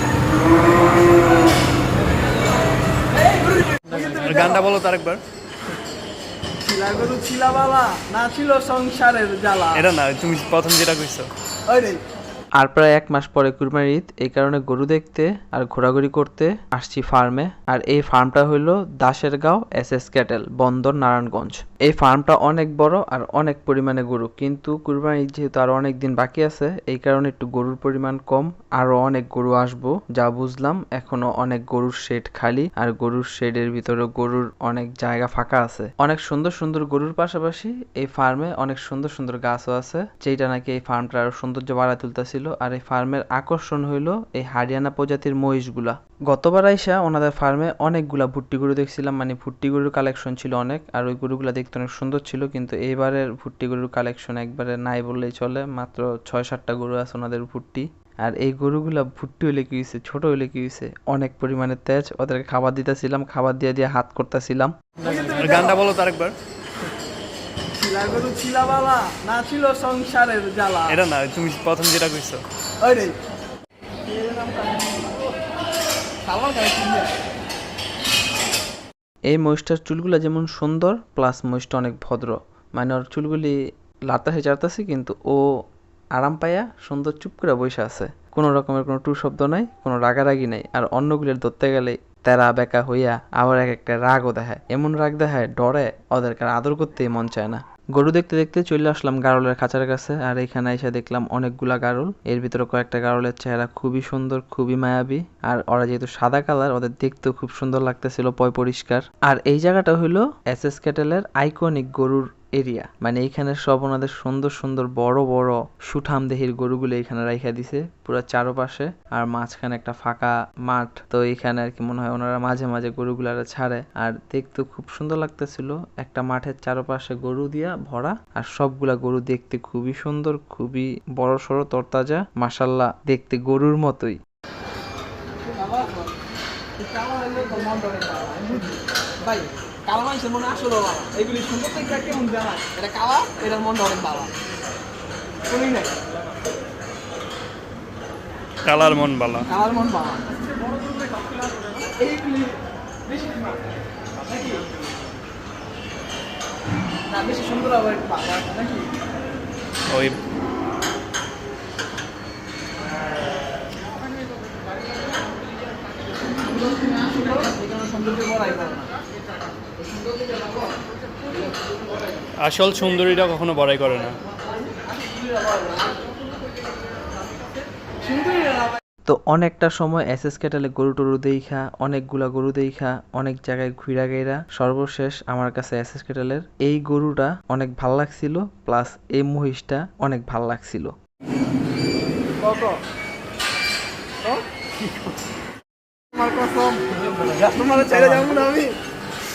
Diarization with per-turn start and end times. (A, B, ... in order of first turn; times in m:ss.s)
0:03.9-0:05.2 A
0:03.9-0:04.2 B
0:06.6-0:09.7 B
0:09.7-0:11.3 A
0:11.7-0:12.0 B
0:12.6-1:04.7 C
1:05.0-1:05.5 B
1:05.0-1:06.3 A
1:07.8-1:10.9 B
1:10.9-1:12.4 A
1:12.8-1:13.2 B
1:14.1-1:15.3 B
1:16.2-1:17.1 B
1:19.3-1:23.6 C
1:24.1-1:25.4 C
1:26.2-2:14.2 C
2:15.5-2:16.1 B
2:16.8-2:24.3 B
2:25.5-2:25.9 B
2:28.6-2:29.5 A
2:29.5-2:30.3 B
2:31.7-2:32.5 B
2:33.1-2:33.4 B
2:37.1-2:38.9 B
2:39.9-2:40.2 A
2:46.9-2:48.8 B
2:52.4-2:54.2 A
2:59.0-3:10.9 C
3:12.4-3:12.8 B
3:16.1-3:18.7 B